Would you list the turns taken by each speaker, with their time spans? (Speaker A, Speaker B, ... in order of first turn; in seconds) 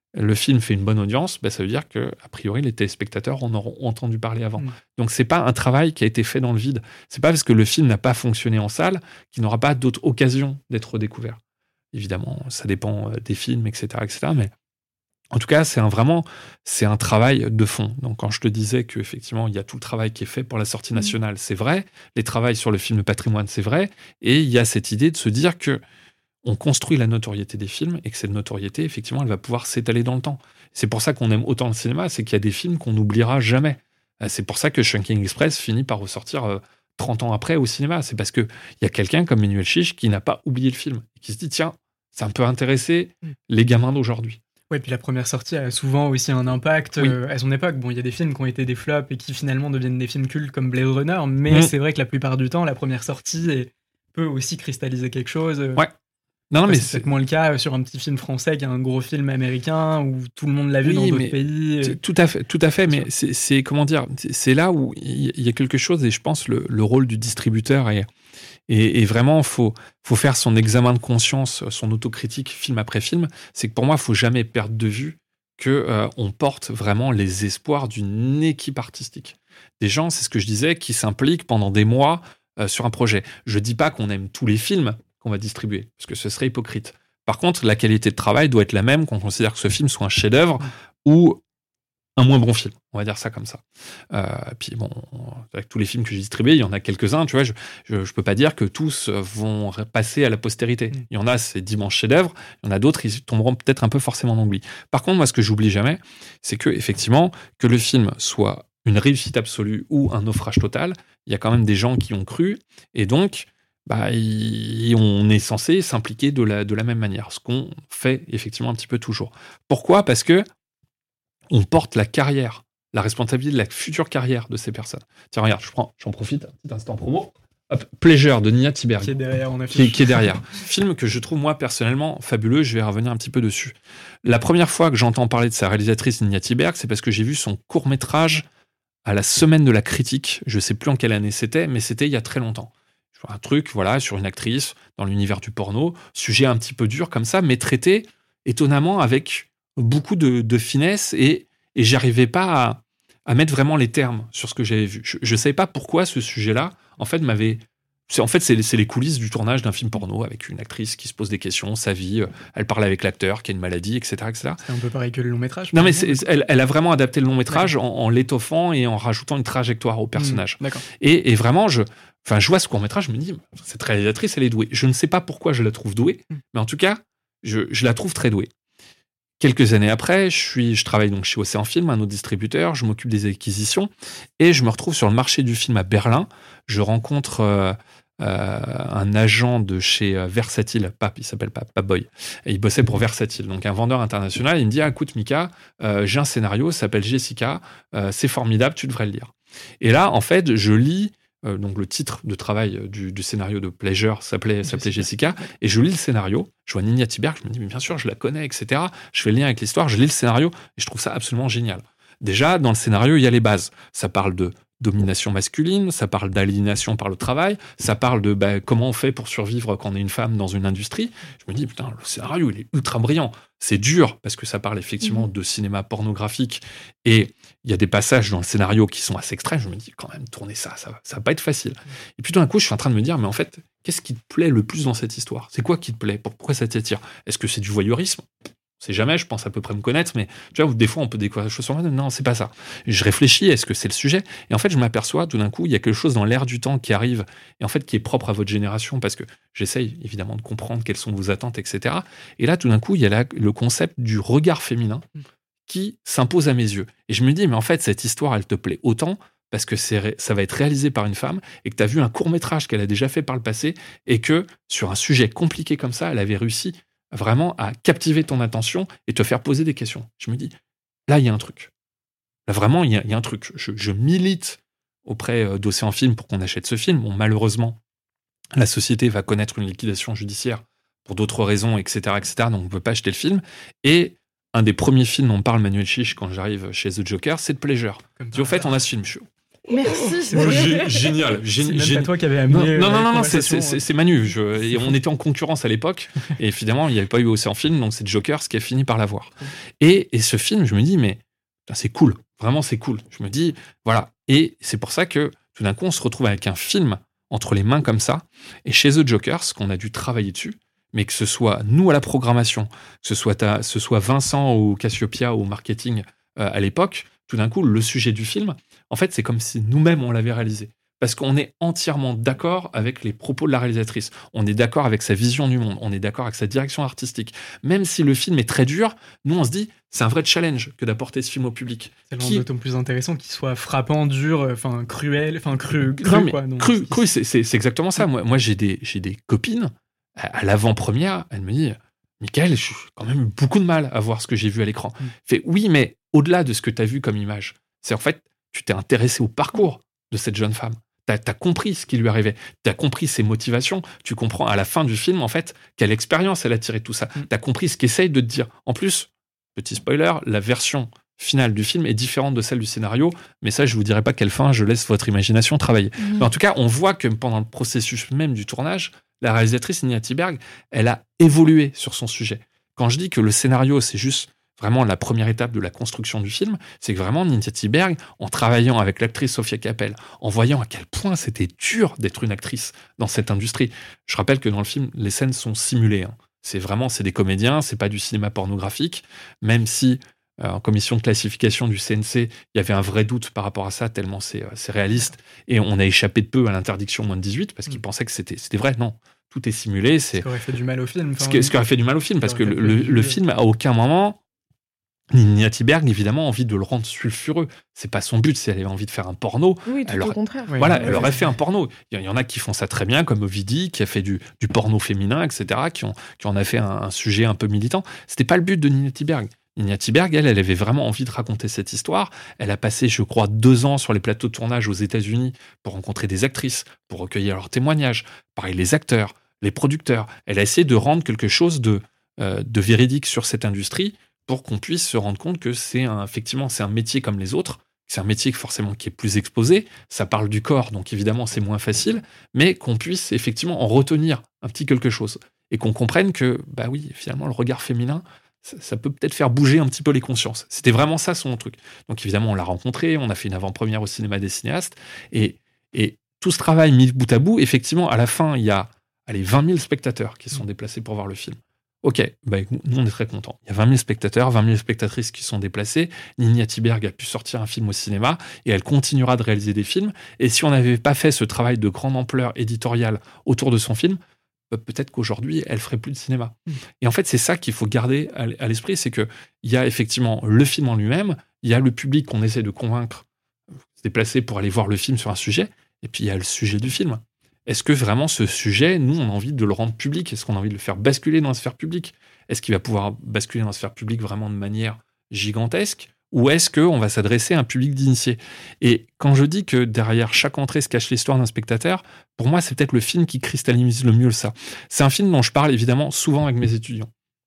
Speaker A: 0.1-11.4, 11.9-14.5, 15.3-25.8, 26.4-44.4, 56.5-57.0, 60.8-68.1, 68.7-91.4, 92.2-120.5, 121.5-129.1, 129.7-138.4, 139.1-164.6, 165.7-178.5, 179.4-238.3, 238.8-255.1, 255.7-270.5, 271.1-271.7, 272.5-277.8, 278.6-289.3, 290.2-332.5, 336.0-400.3, 401.2-404.2, 405.1-474.0, 474.5-483.1, 483.8-506.9
Speaker B: 44.7-55.8, 56.7-62.0, 129.0-130.3, 164.6-166.2, 170.2-170.8, 204.7-205.1, 288.2-288.7, 290.2-290.8, 291.6-293.8, 332.1-337.0, 400.2-401.6, 402.2-403.2, 410.5-411.2
Speaker C: 289.7-291.1, 409.7-411.1